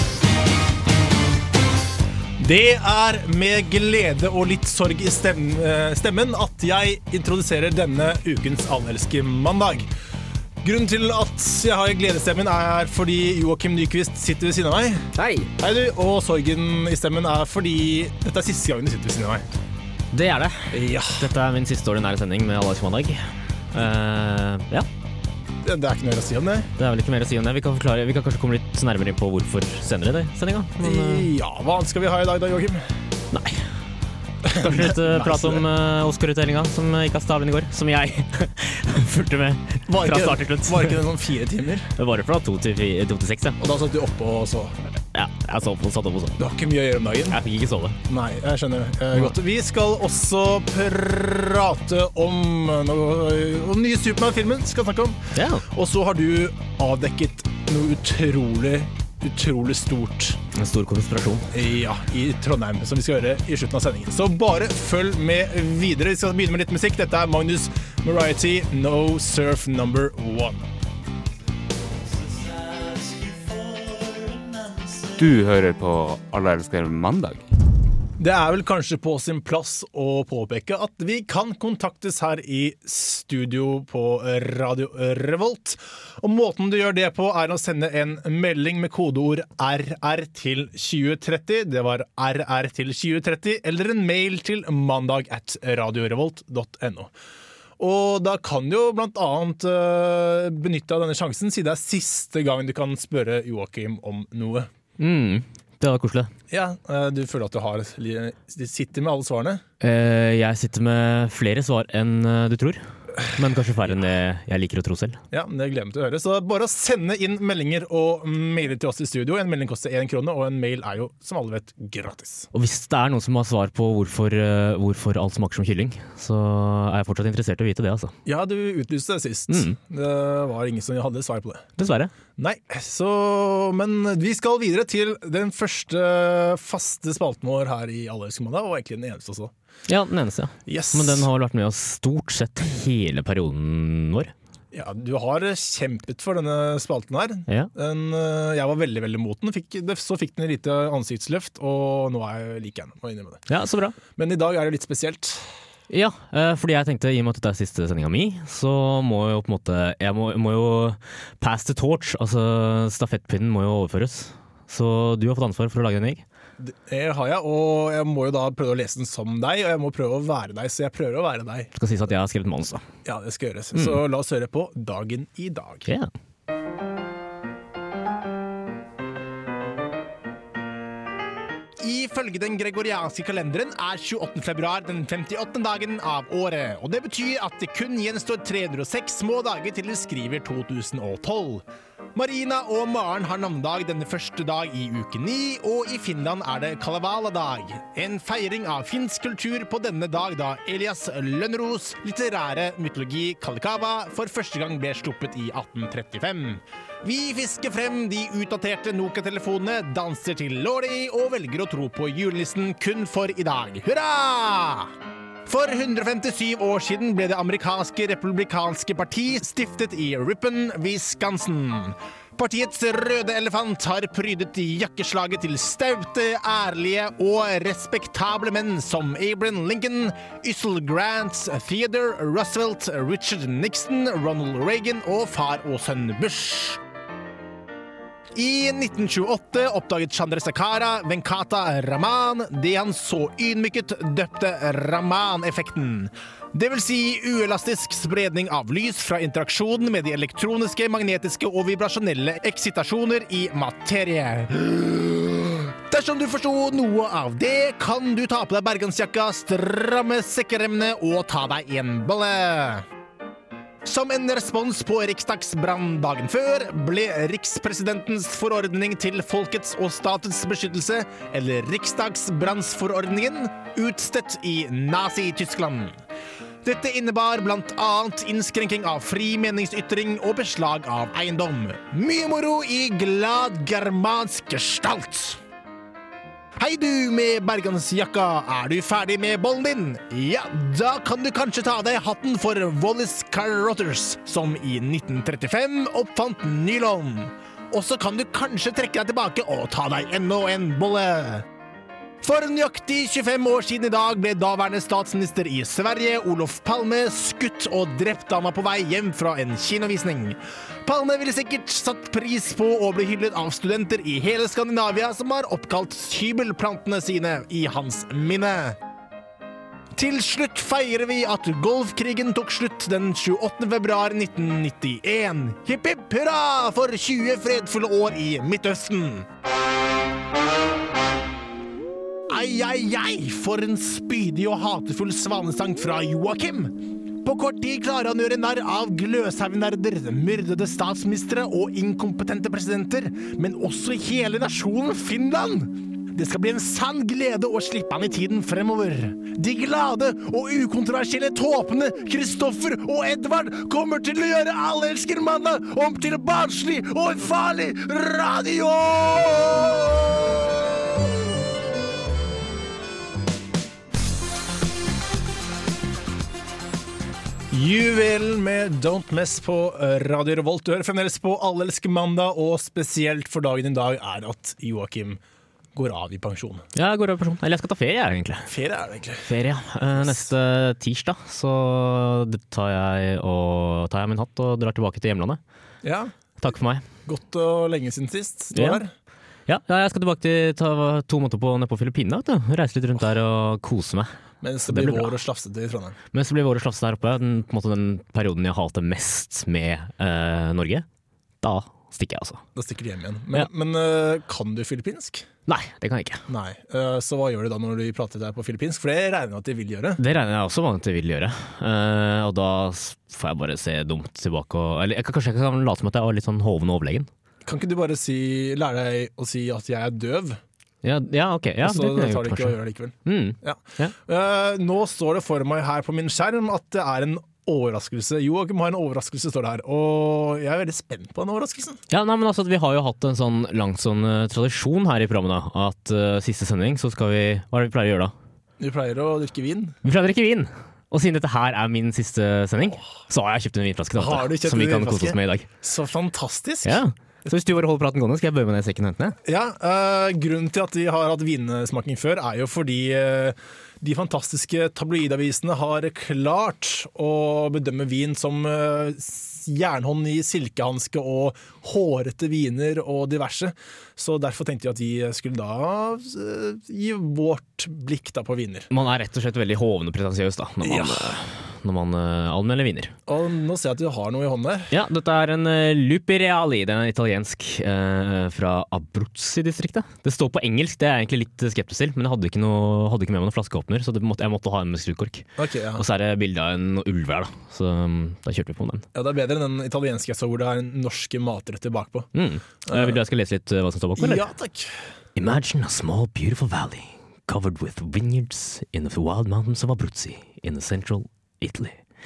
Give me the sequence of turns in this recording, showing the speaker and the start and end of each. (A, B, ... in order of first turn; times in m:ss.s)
0:02.4-0:09.9 A
0:10.6-0:19.4 A
0:15.1-0:15.5 B
0:20.1-0:24.9 B
0:20.7-0:21.3 A
0:25.6-0:26.7 A
0:26.8-0:31.3 B
0:30.8-0:32.8 A
0:33.3-0:33.6 B
0:34.4-0:35.6 A
0:34.5-0:41.0 B
0:39.9-0:41.9 A
0:42.0-0:43.6 B
0:43.6-0:44.7 A
0:45.1-0:46.4 B
0:46.4-0:47.4 A
0:47.3-0:48.0 B
0:48.1-1:00.4 A
0:55.3-0:55.6 B
1:00.5-1:01.5 B
1:01.5-1:10.7 A
1:15.1-1:17.4 C
1:18.2-1:37.1 A
1:37.8-1:44.7 A
1:45.0-1:46.3 B
1:46.5-1:49.6 A
1:49.8-1:55.2 B
1:55.3-2:02.5 A
2:02.5-2:08.1 B
2:08.2-2:11.6 A
2:09.5-2:09.8 B
2:11.8-2:12.1 B
2:12.4-2:19.5 A
2:19.9-2:24.3 B
2:20.7-2:21.3 A
2:24.7-2:33.4 A
2:33.5-2:34.0 B
2:34.2-2:35.5 A
2:35.9-2:46.2 B
2:46.6-2:51.7 A
2:51.7-2:52.8 B
2:53.0-2:55.9 A
3:01.8-3:34.9 A
3:35.4-3:56.8 A
3:58.3-4:22.8 A
4:23.8-4:36.0 A
4:36.6-4:45.4 A
4:46.6-5:01.5 A
5:02.2-5:18.8 A
5:19.9-5:29.3 A
5:32.3-6:00.4 A
6:07.5-6:15.2 A
6:15.7-6:16.6 A
6:16.7-6:18.5 B
6:18.5-6:19.3 A
6:19.2-6:25.4 B
6:25.8-6:26.1 A
6:26.4-6:26.8 B
6:27.0-6:28.9 A
6:28.5-6:28.8 B
6:29.5-6:34.1 B
6:34.4-6:36.0 A
6:34.7-6:35.1 B
6:36.1-6:40.8 B
6:41.4-6:42.4 B
6:42.5-6:45.3 A
6:45.5-6:46.2 B
6:46.3-6:50.0 A
6:50.0-6:57.1 B
6:57.4-7:00.4 A
7:00.8-7:03.9 B
7:01.6-7:11.8 A
7:11.9-7:18.1 B
7:18.6-7:19.8 A
7:19.8-7:25.5 B
7:23.9-7:26.8 A
7:26.6-7:29.2 B
7:29.2-7:48.7 A
7:48.7-7:52.9 B
7:50.6-7:51.2 A
7:53.1-7:54.7 A
7:54.7-8:08.8 B
8:05.4-8:05.8 A
8:08.9-8:12.1 A
8:12.1-8:14.2 B
8:12.6-8:13.0 A
8:14.0-8:14.8 A
8:15.2-8:21.8 B